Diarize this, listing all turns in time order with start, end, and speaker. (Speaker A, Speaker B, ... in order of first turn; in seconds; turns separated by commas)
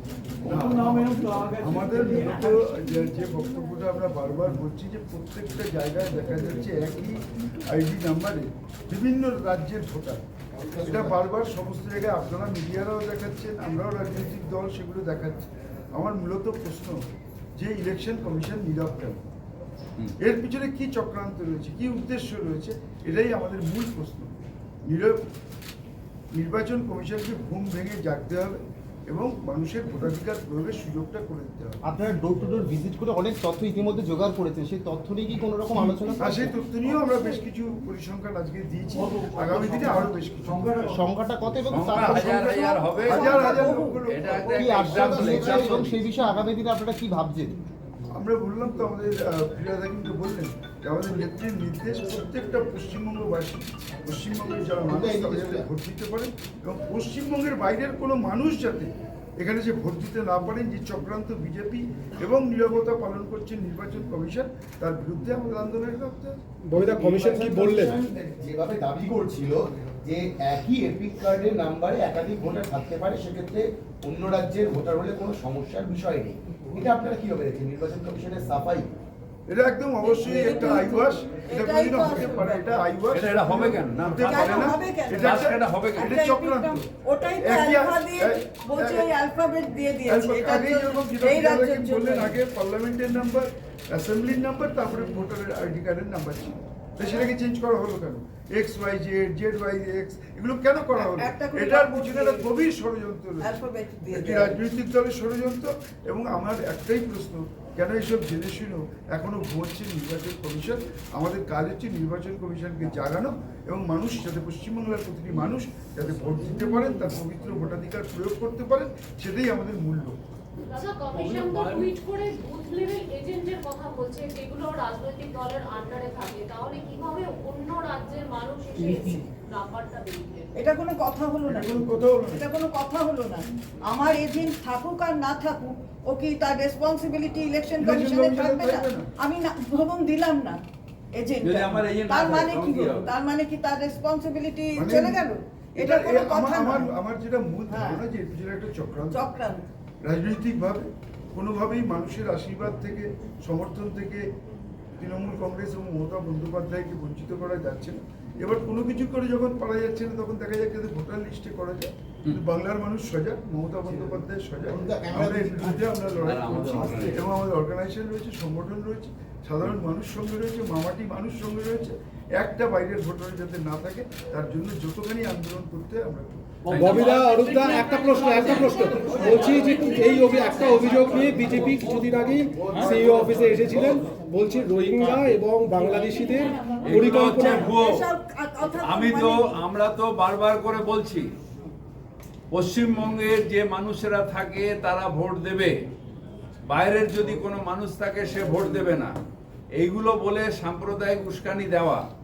Speaker A: 0.4-10.2, Speaker B: 10.5-11.2, Speaker A: 10.8-17.0, Speaker A: 17.6-19.2, Speaker A: 20.2-25.2, Speaker A: 26.3-31.8, Speaker B: 31.8-36.5, Speaker A: 36.2-40.9, Speaker B: 40.8-42.8, Speaker C: 41.7-46.0, Speaker D: 42.2-44.0, Speaker A: 43.0-45.8, Speaker B: 44.5-47.6, Speaker A: 48.1-66.4, Speaker B: 54.9-55.7, Speaker E: 66.7-68.0, Speaker B: 66.7-78.9, Speaker A: 79.5-86.8, Speaker D: 80.0-82.8, Speaker C: 83.1-86.1, Speaker D: 84.2-92.3, Speaker A: 87.4-89.1, Speaker A: 90.1-103.5, Speaker D: 100.9-102.5, Speaker D: 103.4-104.6, Speaker A: 104.1-120.2, Speaker F: 120.7-130.5, Speaker D: 130.6-140.6, Speaker A: 131.4-132.4, Speaker A: 137.8-139.1, Speaker D: 141.2-146.9, Speaker C: 141.4-143.1, Speaker A: 144.8-145.2, Speaker A: 145.8-149.2, Speaker D: 147.7-148.0, Speaker D: 149.1-149.6, Speaker A: 150.0-154.2, Speaker A: 155.0-176.7, Speaker B: 164.7-165.9, Speaker C: 166.2-167.2, Speaker B: 166.5-167.2, Speaker C: 176.7-177.0, Speaker E: 176.7-187.7, Speaker F: 176.9-180.9, Speaker A: 182.7-183.2, Speaker D: 186.2-189.6, Speaker C: 186.8-188.0, Speaker C: 188.8-191.3, Speaker C: 192.5-195.8, Speaker C: 196.7-199.1, Speaker C: 199.7-202.0